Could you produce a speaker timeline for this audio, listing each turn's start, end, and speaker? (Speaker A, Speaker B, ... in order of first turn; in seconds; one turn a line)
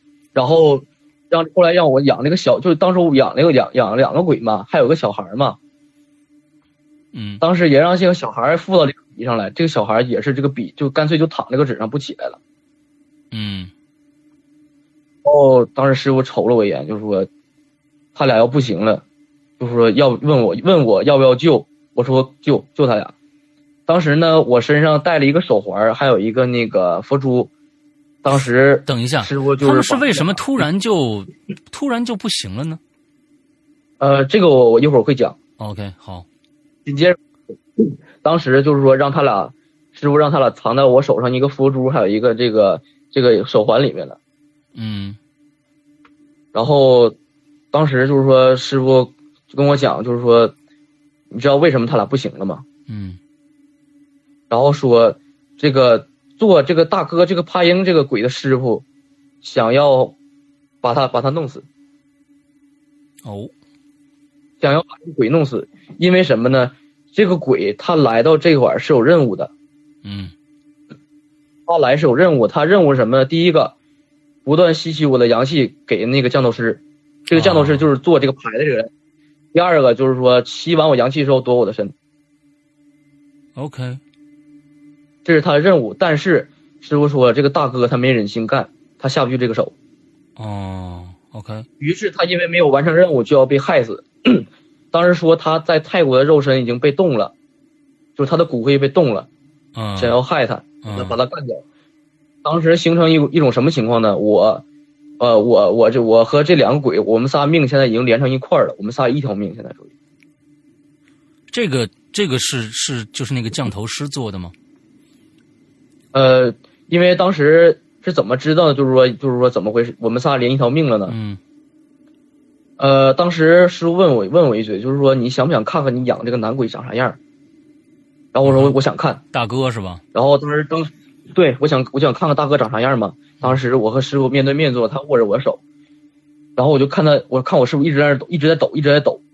Speaker A: 0.3-5.6
Speaker B: 7.1-7.4
Speaker A: 7.4-12.4
Speaker B: 13.3-13.7
Speaker A: 15.2-17.3
Speaker A: 18.1-19.0
Speaker A: 19.6-23.1
Speaker A: 23.9-27.5
Speaker A: 28.2-30.4
Speaker B: 28.9-32.8
Speaker A: 34.0-35.4
Speaker B: 35.6-36.3
Speaker A: 36.9-37.2
Speaker A: 37.8-44.2
Speaker B: 44.8-45.2
Speaker A: 46.5-47.1
Speaker A: 47.7-50.5
Speaker A: 51.3-52.6
Speaker B: 52.9-53.2
Speaker A: 54.5-58.8
Speaker A: 59.4-60.1
Speaker A: 60.8-61.7
Speaker B: 63.2-63.5
Speaker A: 64.6-69.5
Speaker B: 70.0-70.3
Speaker A: 71.7-73.7
Speaker A: 74.5-78.9
Speaker B: 77.3-77.9
Speaker A: 79.5-81.9
Speaker B: 83.6-84.0
Speaker A: 85.2-89.7
Speaker B: 90.4-91.7
Speaker A: 91.8-97.3
Speaker A: 98.2-99.3
Speaker B: 99.8-100.2
Speaker A: 100.0-101.6
Speaker B: 100.8-101.2
Speaker A: 102.4-104.6
Speaker A: 105.2-109.9
Speaker B: 111.5-114.5
Speaker A: 116.1-121.2
Speaker B: 121.1-121.4
Speaker A: 122.8-127.2
Speaker A: 128.3-129.2
Speaker B: 128.4-128.8
Speaker B: 129.3-130.0
Speaker A: 130.1-135.6
Speaker A: 136.6-139.2